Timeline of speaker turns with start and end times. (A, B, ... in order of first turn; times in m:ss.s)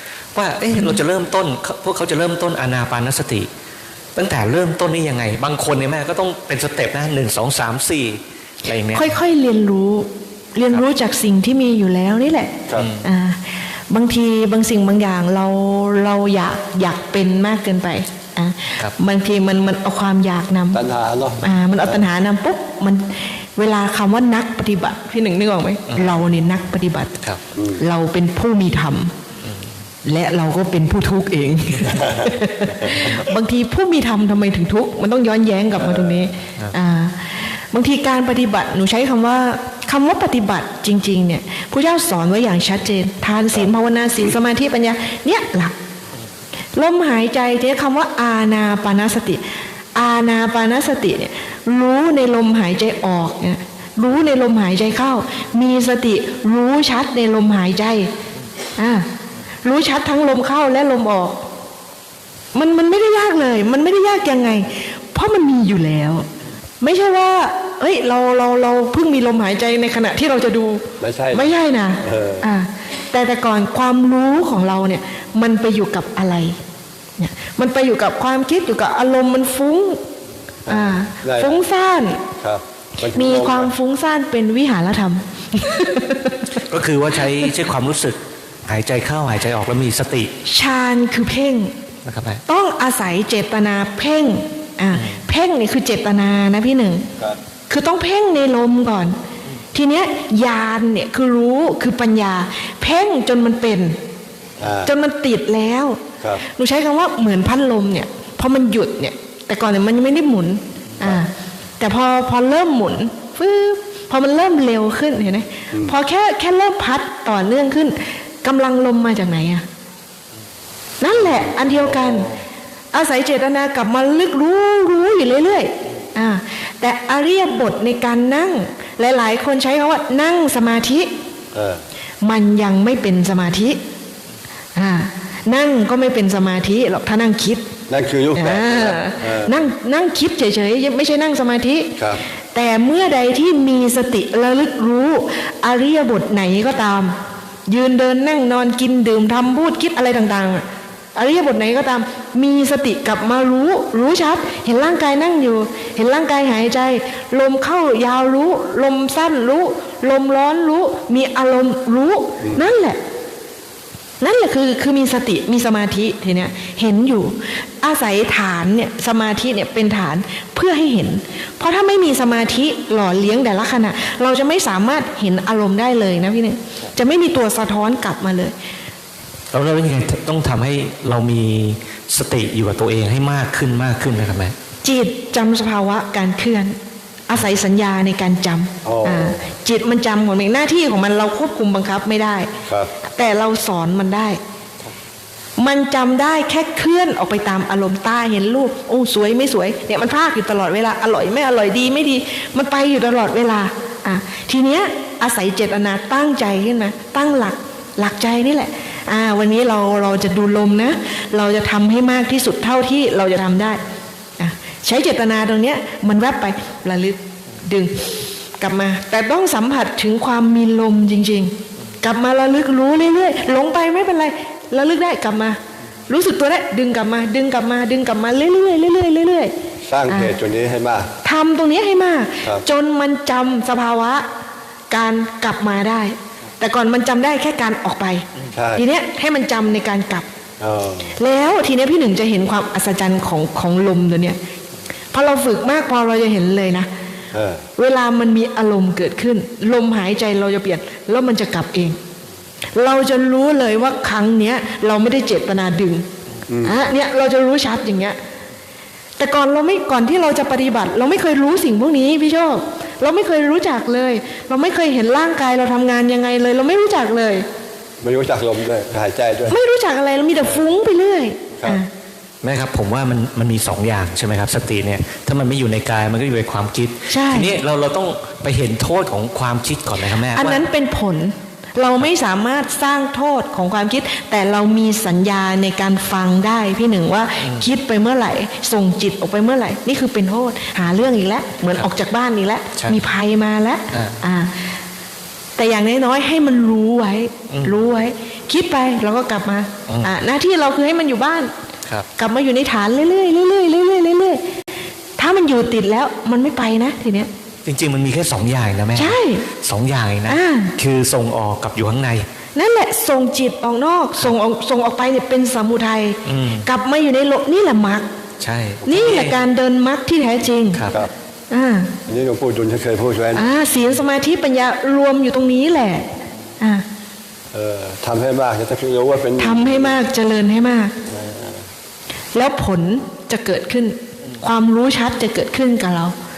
0:00.4-0:03.5 A
0:04.2-0:09.1 A
0:08.9-0:20.8 B
0:12.8-0:13.0 A
0:20.7-0:21.4 C
0:21.4-0:27.2 B
0:27.8-0:29.1 B
0:30.0-0:45.7 B
0:46.7-0:49.4 B
0:50.0-0:58.1 B
0:58.8-0:59.1 B
0:59.6-1:01.4 B
1:02.5-1:06.3 B
1:06.8-1:16.6 B
1:11.0-1:12.5 C
1:17.2-1:20.0 B
1:20.7-1:21.6 C
1:20.7-1:22.2 B
1:22.4-1:23.7 C
1:23.1-1:26.5 B
1:26.5-1:30.3 A
1:30.5-1:31.7 B
1:32.0-1:32.4 A
1:32.5-1:37.1 B
1:34.9-1:35.2 A
1:37.7-1:39.2 B
1:39.7-1:44.0 B
1:44.6-1:44.9 C
1:44.8-1:59.6 B
2:01.0-2:02.3 B
2:02.9-2:11.1 B
2:11.5-2:11.8 C
2:12.2-2:13.8 B
2:14.8-2:17.7 B
2:17.9-2:19.6 C
2:18.4-2:22.0 B
2:22.5-2:27.2 B
2:27.7-2:30.6 B
2:31.2-2:43.0 B
2:44.2-2:58.5 B
2:59.5-3:04.6 A
3:04.8-3:06.8 B
3:07.3-3:12.5 B
3:08.8-3:09.4 C
3:13.0-3:14.4 B
3:15.6-3:33.8 B
3:34.4-3:49.5 B
3:49.8-3:51.1 C
3:50.1-3:50.4 B
3:51.2-3:54.2 B
3:54.9-4:00.3 B
3:58.5-3:58.8 C
4:00.6-4:01.1 C
4:01.2-4:04.4 B
4:05.1-4:06.9 B
4:07.3-4:07.6 C
4:07.8-4:12.0 B
4:12.8-4:16.1 B
4:16.5-4:16.8 C
4:16.6-4:18.2 B
4:19.2-4:27.5 B
4:28.0-4:29.6 C
4:29.5-4:31.9 B
4:32.4-4:40.6 A
4:37.1-4:37.6 B
4:40.3-4:54.6 B
4:53.9-4:54.2 A
4:55.6-5:01.5 B
4:57.5-4:57.8 A
5:02.2-5:04.4 B
5:05.2-5:07.3 B
5:07.7-5:12.2 A
5:09.0-5:09.5 B
5:10.3-5:10.8 B
5:12.6-5:18.1 B
5:16.2-5:16.7 A
5:18.4-5:19.4 A
5:18.8-5:20.8 B
5:20.7-5:21.0 A
5:21.5-5:21.9 B
5:22.1-5:23.5 C
5:23.3-5:26.1 B
5:27.5-5:30.0 C
5:29.4-5:30.9 B
5:31.1-5:31.6 C
5:32.3-5:36.2 B